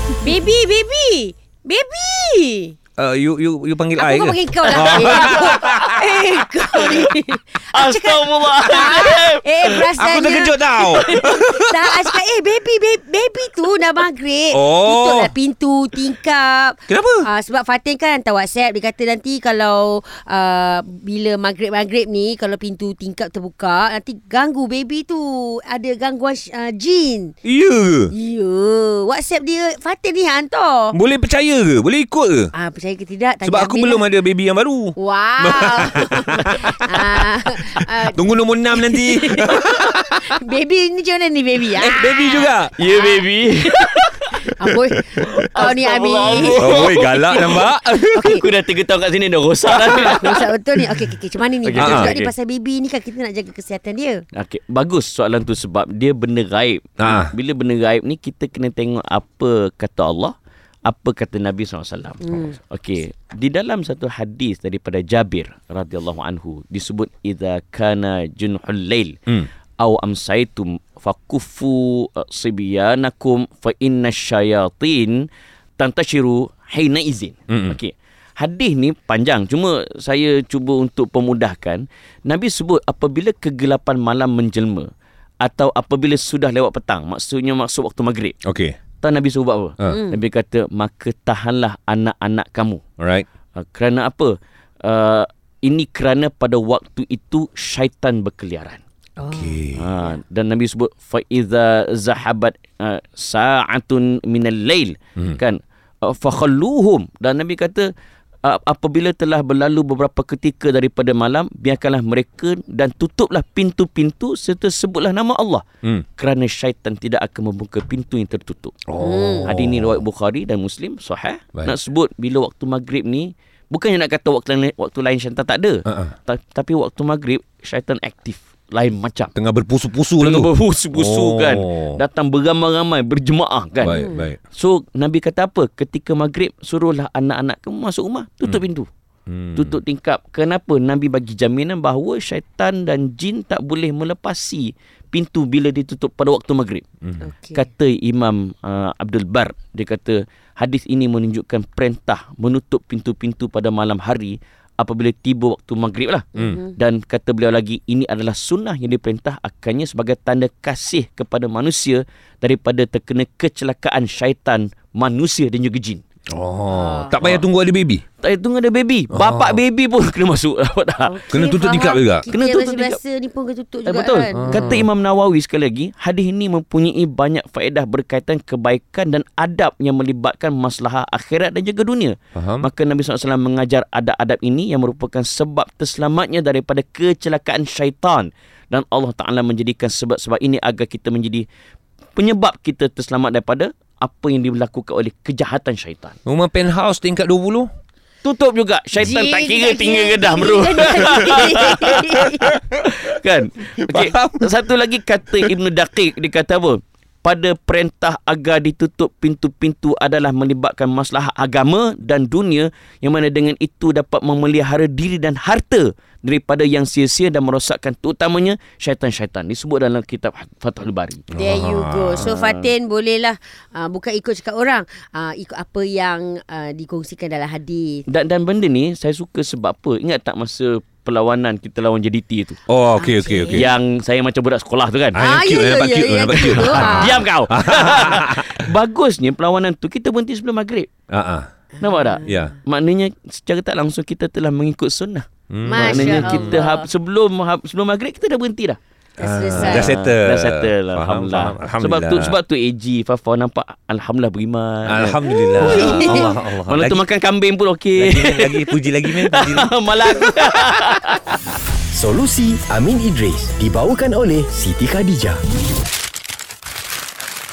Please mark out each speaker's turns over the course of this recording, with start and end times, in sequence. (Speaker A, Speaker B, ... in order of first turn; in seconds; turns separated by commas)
Speaker A: 0.2-2.7, Speaker B: 3.0-7.0, Speaker A: 4.0-27.3, Speaker C: 4.9-5.8, Speaker C: 6.8-7.1, Speaker C: 7.7-9.8, Speaker B: 9.7-12.0, Speaker B: 14.5-15.3, Speaker B: 16.9-17.3, Speaker B: 27.4-28.1, Speaker A: 28.1-30.9, Speaker B: 30.9-32.5, Speaker A: 32.5-34.0, Speaker B: 33.4-37.2, Speaker A: 35.0-38.2, Speaker B: 38.0-40.3, Speaker A: 38.7-48.5, Speaker B: 41.8-42.7, Speaker C: 42.2-44.5, Speaker C: 45.2-50.5, Speaker B: 46.4-48.3, Speaker A: 50.0-54.2, Speaker C: 51.6-52.3, Speaker B: 51.7-52.2, Speaker C: 54.3-60.3, Speaker B: 57.0-57.3, Speaker C: 60.9-69.2, Speaker A: 62.2-62.6, Speaker C: 69.8-75.2, Speaker C: 75.8-84.9, Speaker B: 77.5-77.8, Speaker C: 85.4-88.3, Speaker B: 88.4-88.7, Speaker C: 89.0-92.8, Speaker A: 89.9-90.2, Speaker B: 93.0-93.2, Speaker C: 93.6-98.8, Speaker A: 99.2-99.6, Speaker B: 99.3-99.8, Speaker C: 99.7-107.9, Speaker C: 108.4-115.6, Speaker C: 116.2-118.7, Speaker B: 118.9-120.0, Speaker A: 119.0-119.5, Speaker C: 119.4-129.3, Speaker B: 125.9-126.1, Speaker B: 129.3-132.0, Speaker C: 130.2-138.9, Speaker B: 133.8-134.4, Speaker A: 133.8-134.3, Speaker B: 139.3-139.7, Speaker C: 139.6-146.8, Speaker A: 147.2-147.7, Speaker C: 147.5-166.0, Speaker A: 156.3-156.7, Speaker B: 166.3-168.0, Speaker A: 166.7-167.1, Speaker C: 167.2-167.4, Speaker C: 168.2-171.2, Speaker B: 169.1-169.6, Speaker A: 171.1-174.7, Speaker B: 171.3-172.3, Speaker C: 172.3-173.0, Speaker C: 173.8-191.4, Speaker B: 174.3-174.8, Speaker B: 182.4-182.7, Speaker C: 192.2-196.2, Speaker B: 196.2-197.7, Speaker C: 198.2-221.2, Speaker A: 199.0-202.6, Speaker B: 201.0-202.0, Speaker B: 203.8-204.5, Speaker B: 221.3-222.3, Speaker A: 221.3-228.0, Speaker C: 222.2-222.7, Speaker C: 228.1-232.6, Speaker B: 232.7-233.7, Speaker A: 233.0-233.7, Speaker C: 233.5-235.2, Speaker A: 235.1-237.2, Speaker B: 235.2-238.7, Speaker C: 236.6-240.9, Speaker B: 241.1-241.5, Speaker C: 241.8-248.8, Speaker A: 241.8-242.4, Speaker B: 242.2-242.6, Speaker B: 245.5-246.6, Speaker A: 245.7-246.9, Speaker A: 249.2-250.0, Speaker B: 249.2-252.3, Speaker C: 249.5-261.4, Speaker B: 254.8-257.0, Speaker A: 255.2-256.3, Speaker B: 257.9-260.7, Speaker D: 261.9-265.4